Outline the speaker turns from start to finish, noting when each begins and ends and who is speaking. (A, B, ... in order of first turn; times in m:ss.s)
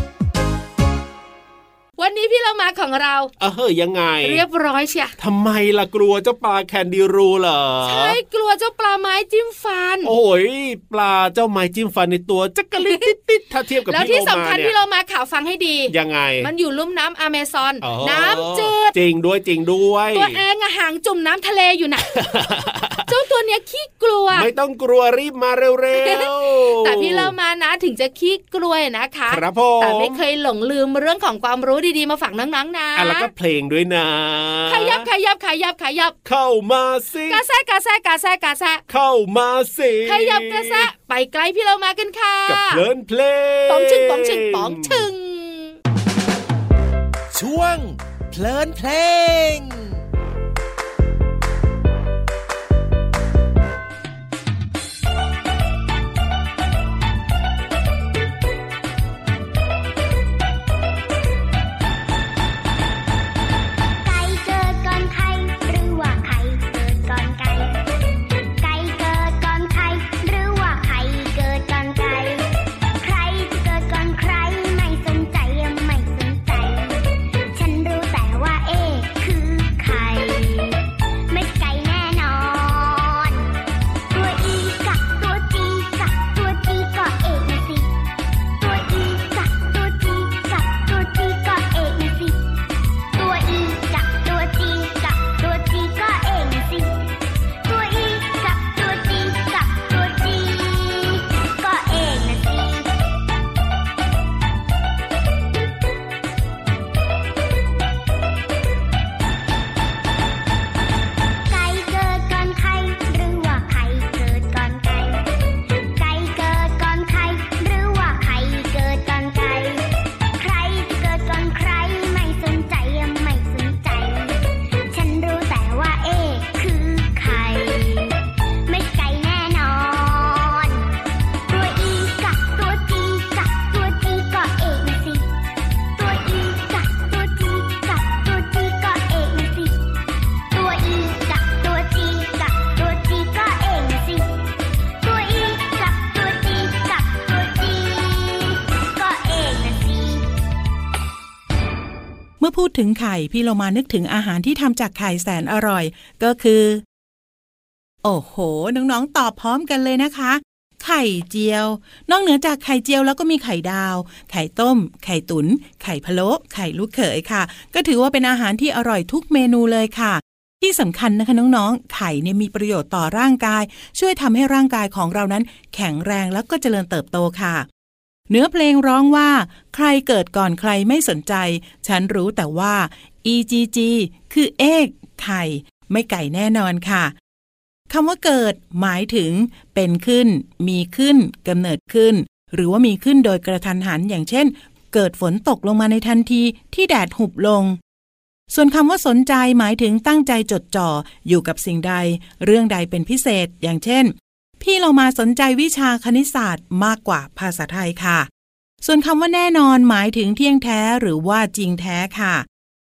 0:02.0-0:03.3 A
0:03.4-0:04.4 B
0:04.2-0:05.1 A
0:05.2-0:08.2 B
0:07.8-0:10.1 A
0:10.0-0:14.7 B
0:12.8-0:13.1 A
0:13.9-0:18.9 A
0:15.9-0:16.5 B
0:17.8-0:20.4 B
0:20.1-0:22.5 A
0:22.1-0:23.1 B
0:23.0-0:24.5 A
0:24.3-0:27.3 B
0:25.9-0:33.3 A
0:29.3-0:30.2 B
0:33.0-0:35.1 B
0:34.7-0:36.1 A
0:36.2-0:37.4 B
0:37.3-0:38.8 A
0:38.9-0:40.9 B
0:40.0-0:42.8 A
0:42.5-0:45.0 B
0:43.7-0:45.8 A
0:47.3-0:50.0 C
1:04.0-1:07.8 D
1:08.6-1:23.5 D
1:24.1-1:27.9 D
1:28.6-1:32.4 D
1:33.1-1:37.1 D
1:37.6-1:42.9 D
1:51.5-1:55.3 D
1:56.0-2:10.9 D
2:11.5-2:15.3 D
2:16.0-2:19.8 D
2:20.5-2:24.4 D
2:25.0-2:30.3 D
2:32.4-2:36.8 E
2:38.0-2:57.7 E
2:58.3-3:07.1 E
3:07.9-3:17.8 E
3:18.5-3:28.3 E
3:28.8-3:32.4 E